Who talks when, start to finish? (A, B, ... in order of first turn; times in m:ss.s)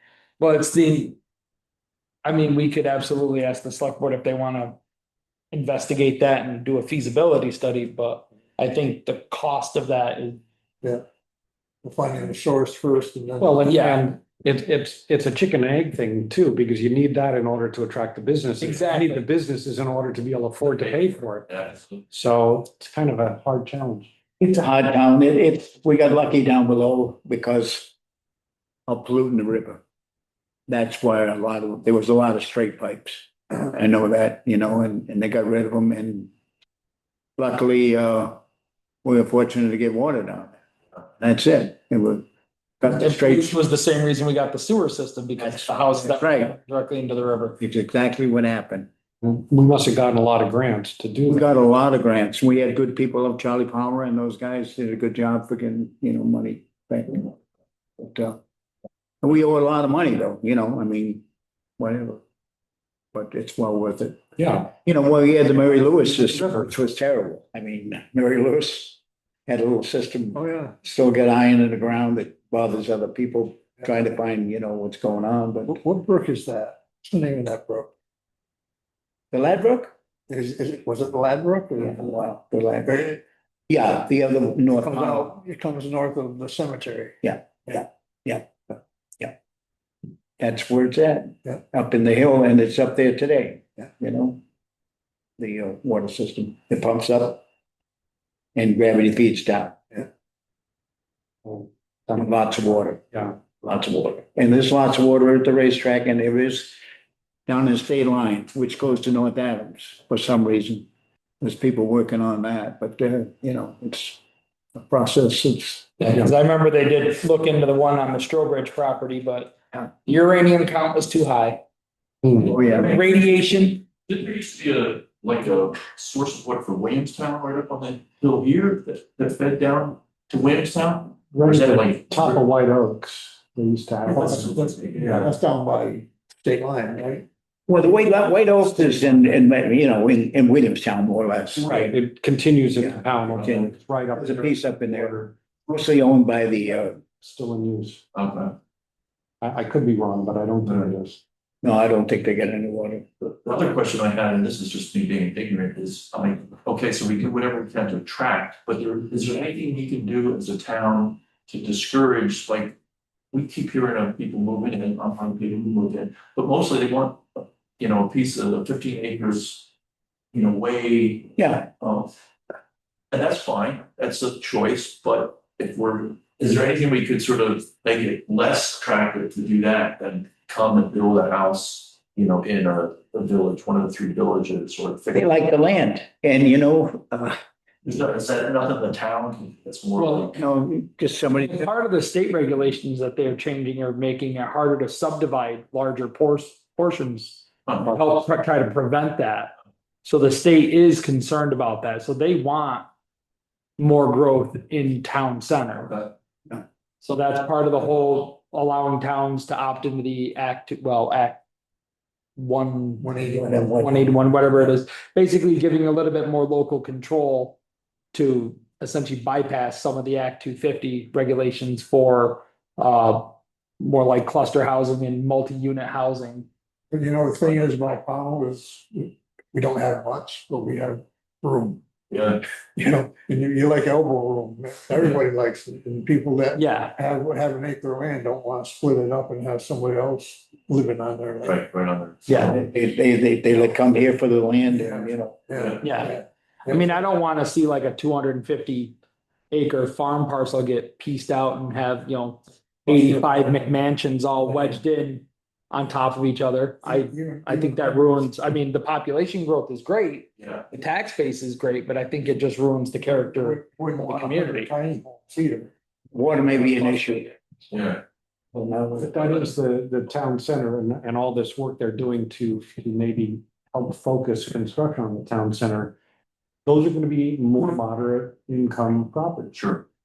0:00.4-0:01.2 A
0:02.2-0:04.8 A
0:05.5-0:10.4 A
0:11.8-0:13.7 B
0:13.4-0:24.1 C
0:13.6-0:14.0 A
0:18.6-0:19.2 A
0:20.6-0:22.0 D
0:24.4-0:27.9 E
0:28.9-0:29.8 E
0:30.7-0:36.3 E
0:37.4-0:38.4 E
0:39.0-0:40.5 E
0:41.2-0:42.2 E
0:42.8-0:43.6 E
0:43.0-0:47.6 A
0:45.4-0:46.6 E
0:47.6-0:48.9 E
0:49.2-0:51.4 C
0:51.3-0:57.3 E
0:58.0-0:58.4 E
0:59.2-1:01.2 E
1:01.8-1:02.2 E
1:03.1-1:15.8 E
1:04.4-1:04.7 C
1:06.1-1:06.6 C
1:10.3-1:10.7 B
1:15.7-1:17.9 B
1:19.3-1:19.9 E
1:20.3-1:22.1 B
1:21.8-1:23.1 E
1:22.8-1:23.2 B
1:23.7-1:25.3 E
1:24.8-1:27.1 B
1:27.2-1:28.4 E
1:30.4-1:34.4 E
1:35.4-1:37.4 E
1:38.5-1:39.8 E
1:41.4-1:42.2 C
1:42.1-1:46.8 E
1:47.5-1:50.9 E
1:51.4-1:54.2 E
1:54.7-1:55.9 E
1:56.0-2:01.6 A
2:02.4-2:03.2 D
2:02.4-2:03.0 E
2:02.7-2:03.8 A
2:04.1-2:12.4 D
2:11.3-2:15.0 C
2:14.0-2:15.3 D
2:14.5-2:17.2 B
2:17.7-2:21.9 E
2:21.6-2:25.2 C
2:22.8-2:27.0 E
2:23.3-2:23.7 D
2:27.0-2:28.0 C
2:28.1-2:28.5 D
2:29.4-2:31.2 C
2:31.6-2:33.0 E
2:33.2-2:42.8 D
2:43.3-2:49.7 D
2:50.3-2:52.1 D
2:51.4-2:51.7 E
2:53.1-3:05.4 D
3:05.1-3:07.4 E
3:07.8-3:10.4 D
3:10.0-3:10.3 A
3:10.3-3:11.7 E
3:11.4-3:19.5 A
3:17.7-3:18.0 D
3:20.0-3:22.8 A
3:23.8-3:25.9 A
3:25.9-3:26.1 D
3:27.0-3:31.4 A
3:32.4-3:37.6 A
3:33.0-3:33.8 B
3:33.4-3:34.0 E
3:38.1-3:46.5 A
3:46.9-3:51.8 B
3:52.1-3:52.4 D
3:52.8-4:01.6 B
3:56.5-3:56.9 A
4:01.4-4:02.6 D
4:02.3-4:05.4 E
4:04.7-4:07.0 B
4:05.5-4:05.8 D
4:05.8-4:09.0 A
4:09.5-4:24.7 A
4:12.9-4:13.6 B
4:14.4-4:14.8 B
4:16.8-4:18.2 B
4:23.2-4:25.7 B
4:26.1-4:27.3 E
4:27.7-4:28.0 D
4:28.5-4:29.2 E
4:29.0-4:36.0 C
4:36.6-4:39.5 C
4:39.5-4:39.8 D